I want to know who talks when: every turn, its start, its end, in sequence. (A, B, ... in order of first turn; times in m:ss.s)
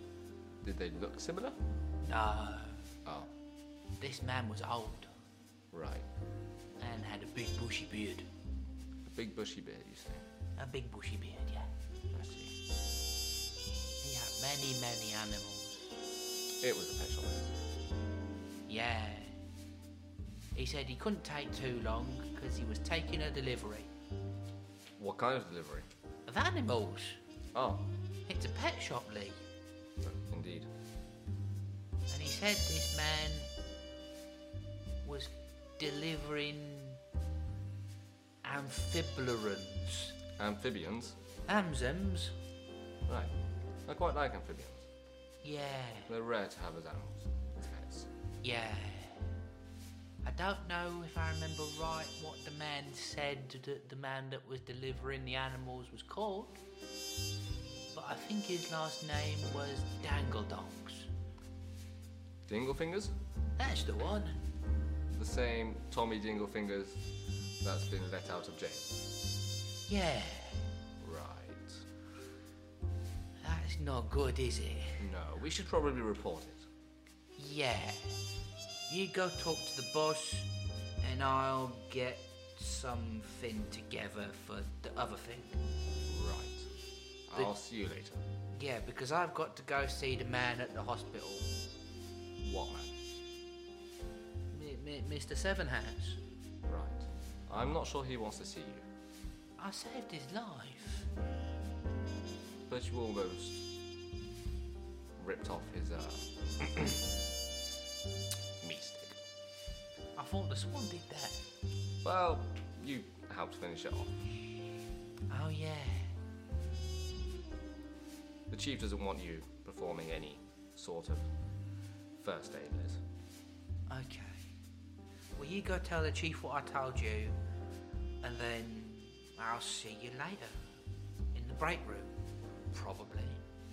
0:00.6-0:01.6 A
0:02.0-0:02.9 B
0:04.0-0:05.1 B
0:05.7-0:06.0 A
0:06.8-0:08.3 B
0:09.0-0:10.2 A
0:10.6-0:11.7 B
0:12.1-0:12.5 A
0:14.0-0:16.0 B
0:16.6-0:17.5 A
0:18.7-0:19.4 B
0:20.5-0:23.9 B
0:25.0-0:25.9 A
0:26.3-0:27.2 B
0:27.5-0:27.9 A
0:28.3-0:29.4 B
0:30.0-0:30.7 A
0:32.1-0:33.5 B
0:35.0-0:37.0 B
0:38.4-0:40.2 B
0:40.4-0:41.2 A
0:41.4-0:42.3 B
0:43.1-0:43.3 A
0:43.8-0:44.8 A
0:45.4-0:46.1 B
0:46.1-0:48.1 A
0:48.4-0:49.3 B
0:50.2-0:56.6 B
0:57.9-1:01.1 B
1:02.5-1:03.1 A
1:03.6-1:04.4 B
1:05.1-1:07.1 A
1:07.6-1:08.9 A
1:09.9-1:10.7 B
1:11.0-1:11.9 A
1:13.4-1:15.1 B
1:15.0-1:16.6 A
1:17.4-1:18.2 B
1:18.9-1:20.5 B
1:21.0-1:25.6 B
1:26.1-1:26.7 A
1:27.3-1:28.2 A
1:28.5-1:31.5 B
1:32.4-1:32.9 A
1:34.5-1:36.2 B
1:36.7-1:38.9 A
1:39.6-1:41.1 B
1:42.7-1:43.6 A
1:45.2-1:47.1 A
1:48.6-1:49.2 A
1:50.1-1:51.4 B
1:52.0-1:54.2 A
1:55.3-1:56.2 B
1:58.5-2:01.3 A
2:02.1-2:03.0 A
2:03.9-2:04.5 B
2:05.4-2:07.4 B
2:08.2-2:10.7 B
2:11.3-2:12.2 B
2:12.7-2:13.4 B